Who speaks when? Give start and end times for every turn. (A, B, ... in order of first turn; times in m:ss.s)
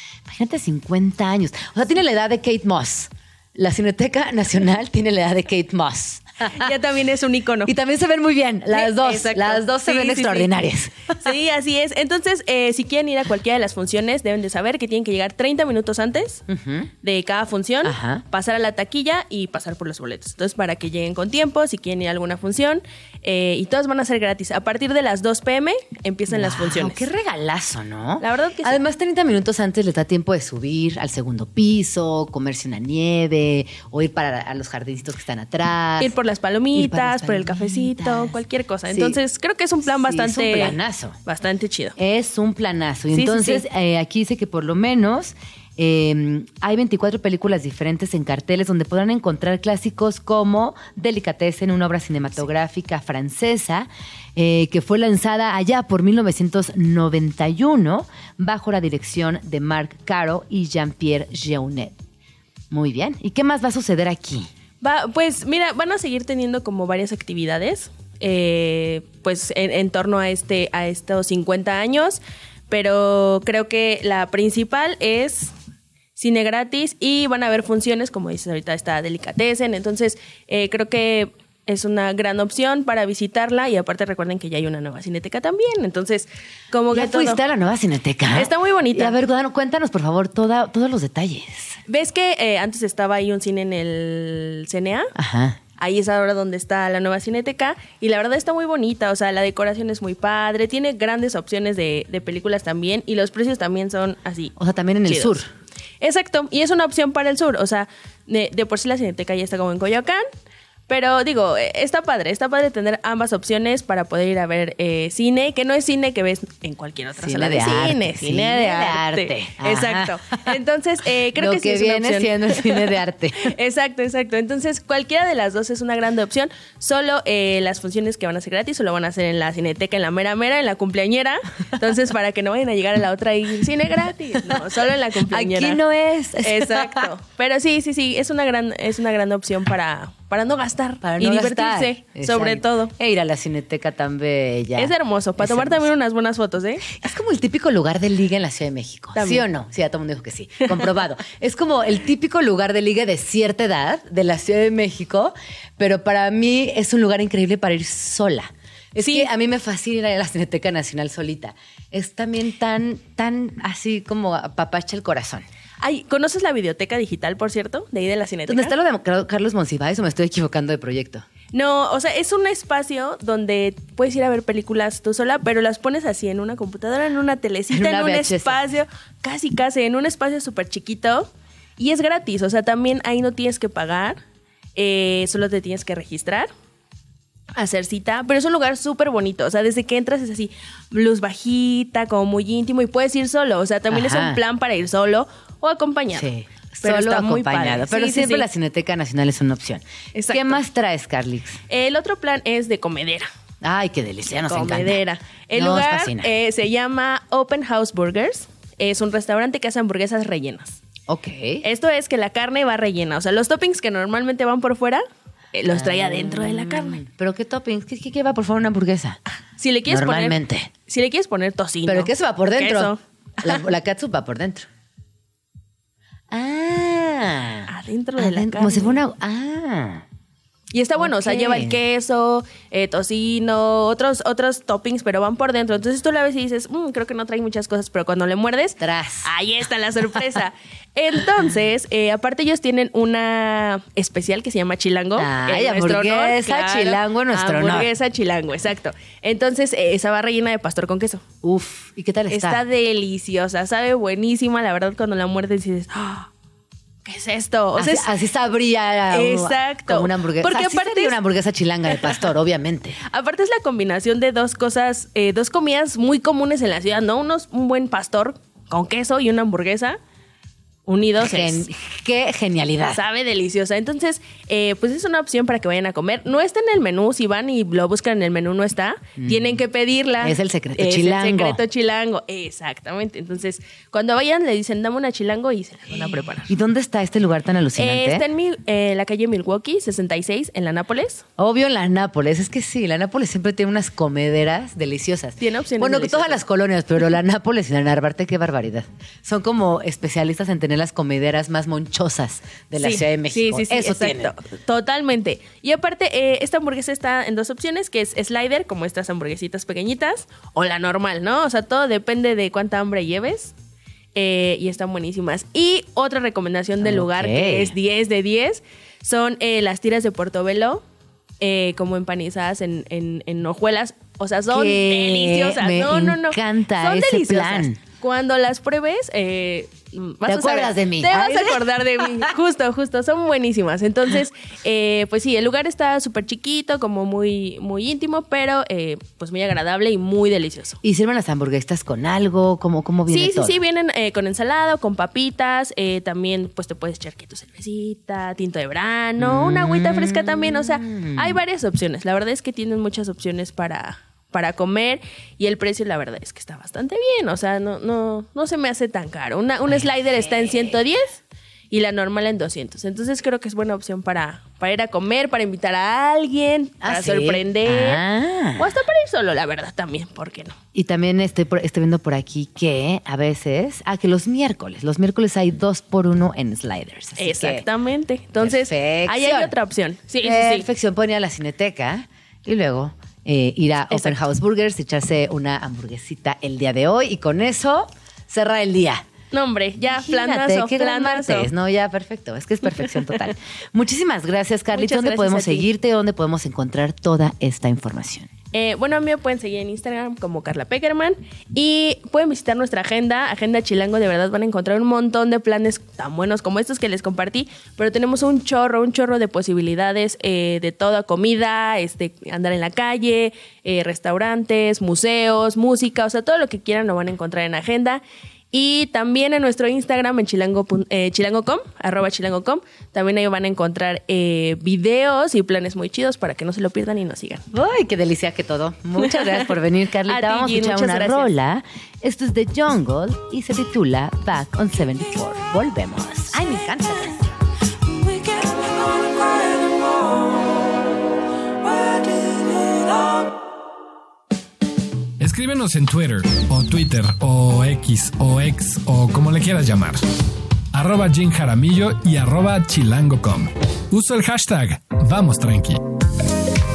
0:00.2-0:06.7 A
0:06.5-0:07.7 B
0:07.6-0:11.3 A
0:08.7-0:10.5 B
0:11.2-0:16.4 B
0:16.5-0:16.9 A
0:17.0-0:27.0 B
0:17.8-0:18.2 A
0:26.3-0:36.1 A
0:28.2-0:28.8 B
0:36.0-0:42.0 B
0:36.7-0:38.4 A
0:38.9-0:39.2 A
0:40.0-0:41.2 A
0:42.0-1:01.9 A
0:43.1-0:43.6 B
1:02.7-1:04.5 A
1:04.8-1:15.5 B
1:16.2-1:27.4 B
1:26.9-1:31.8 A
1:28.3-1:29.2 B
1:31.9-1:35.1 B
1:35.2-1:35.6 A
1:35.8-1:44.5 B
1:44.6-1:45.5 A
1:45.1-1:45.4 B
1:46.0-1:50.2 B
1:50.9-2:15.8 B
1:57.2-2:00.5 A
2:01.4-2:03.5 A
2:15.3-2:17.1 A
2:16.4-2:22.9 B
2:21.0-2:25.9 A
2:24.8-2:27.0 B
2:26.9-2:45.4 A
2:29.1-2:29.5 B
2:39.0-2:39.3 B
2:45.8-2:48.7 B
2:48.5-2:51.2 A
2:51.5-3:04.2 B
2:57.7-2:58.6 A
3:04.8-3:06.5 B
3:07.5-3:16.3 B
3:13.9-3:14.4 A
3:16.1-3:21.6 A
3:16.8-3:18.5 B
3:20.1-3:20.6 B
3:21.7-3:23.3 B
3:23.6-3:25.0 A
3:24.4-3:30.8 B
3:25.5-3:26.3 A
3:31.1-3:31.6 A
3:31.6-3:37.0 B
3:35.7-3:39.2 A
3:39.6-3:43.6 B
3:39.9-3:40.7 A
3:41.8-3:44.7 A
3:46.3-3:50.0 A
3:47.7-3:49.0 B
3:50.7-4:11.2 B
3:51.0-3:51.8 A
3:58.8-3:59.3 A
4:05.2-4:07.9 A
4:11.4-4:12.6 A
4:12.3-4:16.3 B
4:17.0-4:18.1 B
4:17.8-4:23.0 A
4:19.1-4:21.2 B
4:21.9-4:22.2 B
4:23.1-4:30.0 B
4:30.8-4:31.6 B
4:31.2-4:33.0 A
4:32.9-4:46.5 B
4:39.2-4:39.6 A
4:40.2-4:41.6 A
4:45.9-4:48.2 A
4:47.7-4:51.2 B
4:51.4-5:04.3 A
4:55.4-4:56.4 B
5:02.8-5:13.5 B
5:14.1-5:20.8 B
5:16.8-5:17.7 A
5:21.4-5:40.8 B
5:24.5-5:27.8 A
5:30.2-5:32.3 A
5:40.8-5:43.6 A
5:43.1-6:01.2 B
5:49.2-5:51.4 A
5:59.7-6:00.8 A
6:01.7-6:08.0 B
6:06.8-6:08.7 A
6:08.6-6:10.5 B
6:10.7-6:17.6 A
6:17.2-6:20.7 B
6:18.4-6:19.5 A
6:20.2-6:29.1 A
6:29.3-6:31.5 B
6:29.9-6:38.3 A
6:34.7-6:35.7 B
6:38.5-7:07.4 B
7:07.5-7:17.3 A
7:09.0-7:09.5 B
7:10.0-7:11.3 B
7:25.2-7:30.0 C
7:30.7-7:35.8 C